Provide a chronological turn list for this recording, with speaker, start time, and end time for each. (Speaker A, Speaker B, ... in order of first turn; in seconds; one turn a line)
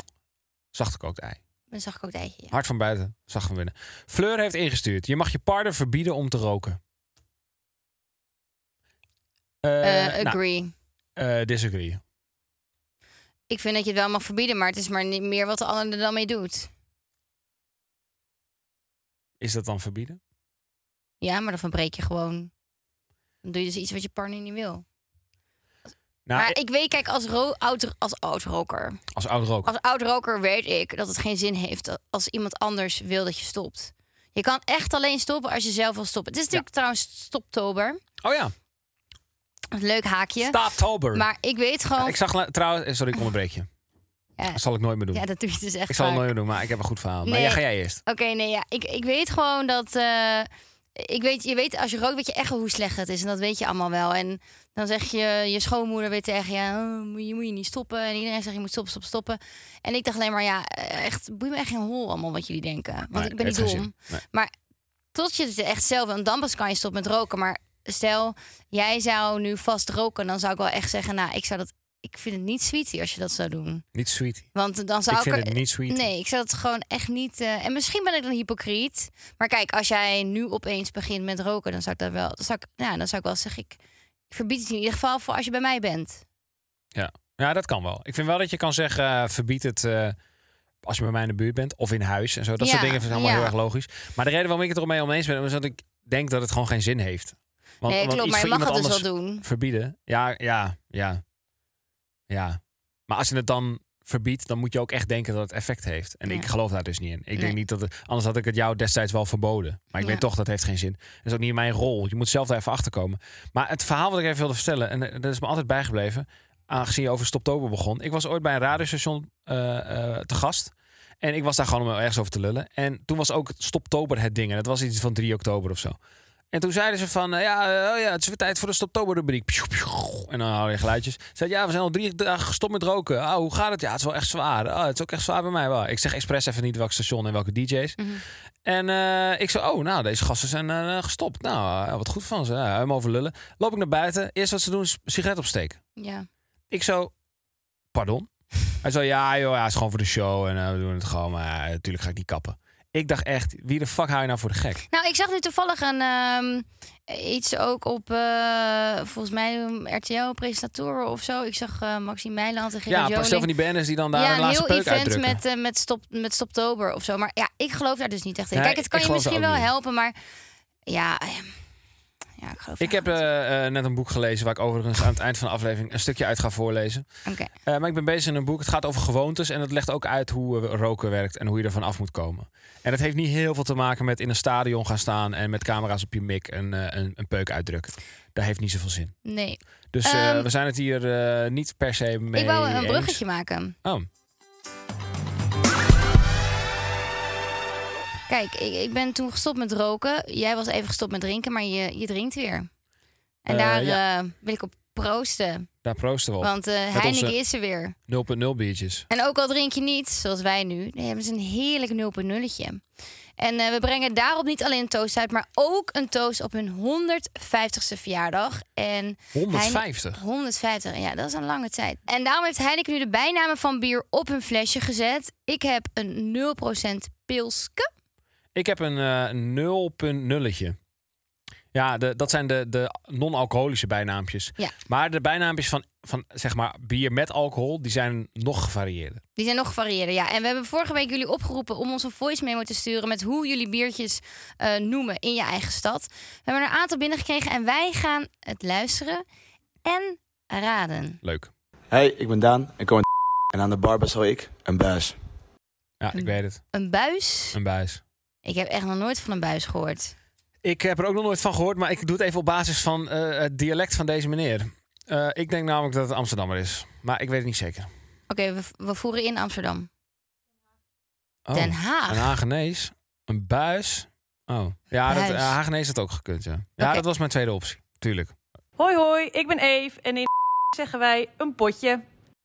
Speaker A: 0.7-1.4
Speaker B: 1.7-2.5
Speaker A: 2.5-6.8
Speaker A: 9.6-10.4
Speaker B: 9.8-10.7
Speaker A: 11.2-12.0
Speaker B: 13.5-16.7
Speaker A: 19.4-20.2
Speaker B: 21.2-22.5
Speaker B: 23.4-24.8
Speaker A: 26.2-26.6
Speaker B: 26.3-29.0
Speaker A: 29.1-29.7
Speaker B: 29.6-38.0
Speaker A: 38.2-38.5
Speaker B: 39.7-40.6
Speaker A: 40.4-41.3
Speaker B: 41.1-42.2
Speaker A: 42.0-43.7
Speaker A: 44.5-45.2
Speaker B: 45.1-46.3
Speaker A: 45.9-48.0
Speaker B: 47.2-64.5
Speaker A: 63.1-64.2
Speaker B: 65.1-73.8
Speaker A: 73.9-74.5
Speaker B: 74.5-83.8
Speaker A: 75.1-76.1
Speaker B: 84.3-86.2
Speaker A: 86.9-90.2
Speaker A: 90.8-101.2
Speaker B: 92.6-93.5
Speaker B: 97.8-99.4
Speaker A: 102.3-126.0
Speaker B: 110.0-110.2
Speaker A: 126.5-138.0
Speaker A: 138.6-145.8
Speaker B: 146.0-146.2
Speaker A: 146.7-147.1
Speaker A: 147.9-154.8
Speaker B: 154.9-163.5
Speaker A: 162.9-165.4
Speaker B: 164.1-170.1
Speaker A: 168.5-169.7
Speaker B: 170.9-171.5
Speaker B: 172.4-173.2
Speaker A: 172.8-177.0
Speaker B: 177.2-177.5
Speaker A: 177.6-189.1
Speaker B: 189.2-190.5
Speaker A: 189.9-193.2
Speaker B: 192.3-193.8
Speaker B: 198.3-202.7
Speaker B: 203.4-205.7
Speaker A: 203.5-204.0
Speaker A: 205.8-207.4
Speaker B: 206.4-207.9
Speaker A: 208.1-209.1
Speaker B: 209.1-212.8
Speaker B: 213.4-227.9
Speaker A: 219.3-220.2
Speaker A: 228.5-230.8
Speaker A: 231.7-239.2
Speaker B: 239.4-249.2
Speaker B: 249.8-251.2
Speaker A: 251.2-251.5
Speaker C: 251.9-255.2
Speaker A: 256.0-256.6
Speaker B: 256.1-257.6
Speaker A: 257.5-258.0
Speaker B: 258.4-260.1
Speaker A: 260.6-267.9
Speaker B: 268.3-269.9
Speaker A: 271.4-278.3
Speaker B: 271.5-272.3
Speaker B: 275.1-275.6
Speaker D: 278.8-282.0